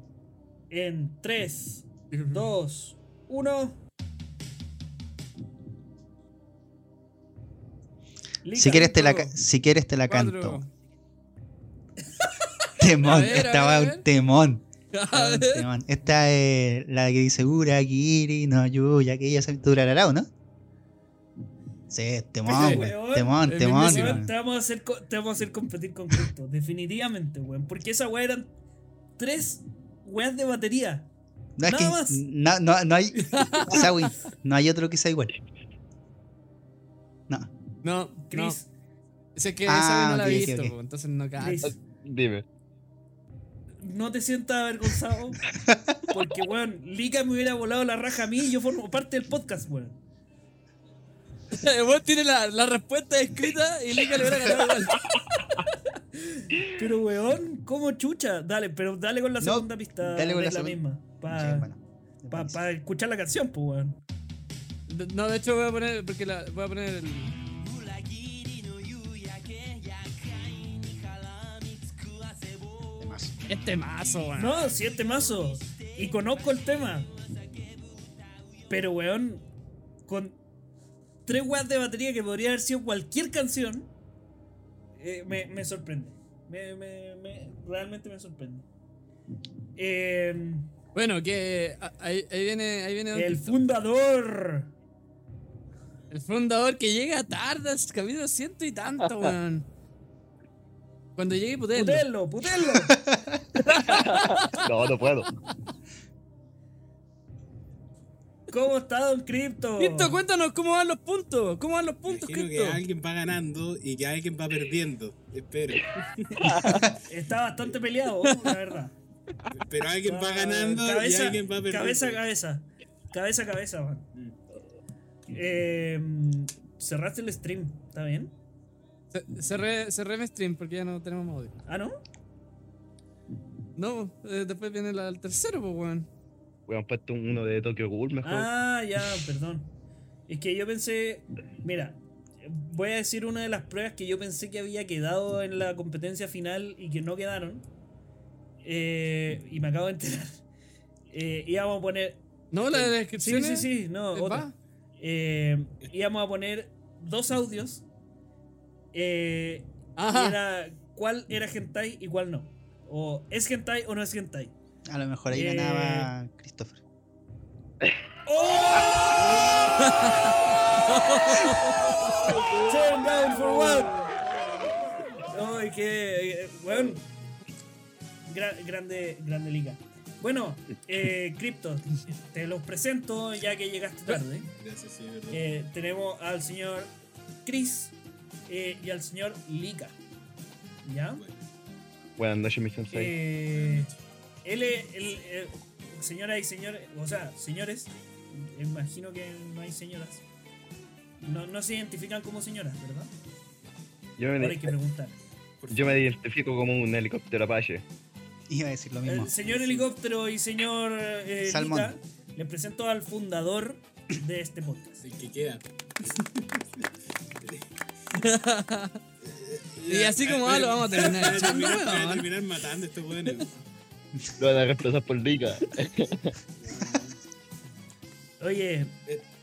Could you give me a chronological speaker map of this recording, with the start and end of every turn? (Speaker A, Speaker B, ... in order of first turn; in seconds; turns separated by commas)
Speaker A: 0.7-3.8, Speaker B: 2.1-2.5, Speaker A: 8.4-9.3, Speaker C: 8.5-10.6, Speaker B: 10.1-10.7, Speaker C: 12.8-20.3, Speaker B: 13.0-14.0, Speaker B: 14.9-15.7, Speaker C: 21.9-24.3, Speaker A: 22.4-28.5, Speaker B: 22.5-22.9, Speaker B: 23.4-24.2, Speaker A: 29.2-31.1, Speaker C: 31.6-35.3, Speaker A: 31.6-32.2, Speaker B: 33.3-33.8, Speaker B: 37.8-38.6, Speaker A: 38.3-38.7, Speaker B: 39.4-41.7, Speaker C: 39.6-40.7, Speaker A: 41.4-41.8, Speaker D: 41.6-42.4, Speaker A: 43.8-45.5, Speaker C: 45.6-46.0, Speaker A: 46.1-50.0, Speaker B: 51.5-55.0, Speaker A: 55.7-61.7, Speaker C: 59.4-62.6, Speaker A: 62.3-64.0, Speaker B: 64.9-67.3, Speaker E: 68.1-72.7, Speaker C: 73.0-73.3, Speaker B: 73.5-74.7, Speaker A: 74.3-77.1, Speaker A: 78.7-79.4, Speaker A: 80.1-80.4, Speaker A: 81.2-83.9, Speaker A: 85.0-88.7, Speaker A: 89.8-90.7, Speaker B: 90.9-93.5, Speaker A: 93.1-94.7, Speaker B: 96.1-99.7, Speaker B: 101.2-102.0, Speaker A: 101.7-103.0, Speaker C: 102.9-103.3, Speaker B: 103.7-104.6, Speaker D: 103.9-105.3, Speaker A: 108.5-110.2, Speaker B: 109.8-112.8, Speaker F: 112.1-116.3, Speaker D: 116.4-116.8, Speaker A: 116.9-119.0, Speaker F: 119.5-122.2, Speaker A: 120.0-124.1, Speaker A: 125.3-128.3, Speaker B: 129.1-131.5, Speaker A: 131.7-132.0, Speaker B: 133.8-136.1, Speaker D: 136.7-138.5, Speaker A: 138.2-139.7, Speaker A: 140.3-147.6, Speaker A: 148.6-150.4, Speaker A: 151.1-152.2, Speaker B: 152.5-154.5, Speaker A: 152.7-157.8, Speaker A: 158.9-164.5, Speaker B: 159.9-160.4, Speaker C: 164.8-166.8, Speaker A: 165.3-166.1, Speaker A: 168.2-170.1, Speaker F: 169.2-170.0, Speaker B: 169.8-170.3, Speaker B: 170.9-171.6, Speaker A: 171.1-174.0, Speaker F: 172.0-174.7, Speaker A: 175.3-177.0, Speaker A: 178.3-184.5, Speaker F: 184.6-185.4, Speaker A: 185.3-186.9, Speaker A: 187.4-187.9, Speaker A: 188.5-190.0, Speaker A: 190.8-191.2, Speaker F: 191.2-191.4, Speaker D: 192.2-193.2, Speaker A: 192.9-193.9, Speaker F: 193.5-193.9, Speaker A: 194.4-200.2, Speaker A: 201.2-203.1, Speaker D: 204.2-204.8, Speaker A: 204.3-205.2, Speaker F: 205.6-206.1, Speaker D: 205.7-207.8, Speaker C: 208.5-209.3, Speaker A: 209.1-215.0, Speaker F: 209.4-209.8, Speaker C: 211.4-211.9, Speaker F: 215.0-216.8, Speaker F: 217.4-217.7, Speaker B: 218.1-219.0, Speaker F: 219.2-223.6, Speaker B: 219.9-222.3, Speaker D: 224.4-226.3, Speaker F: 226.6-227.2, Speaker A: 228.4-228.9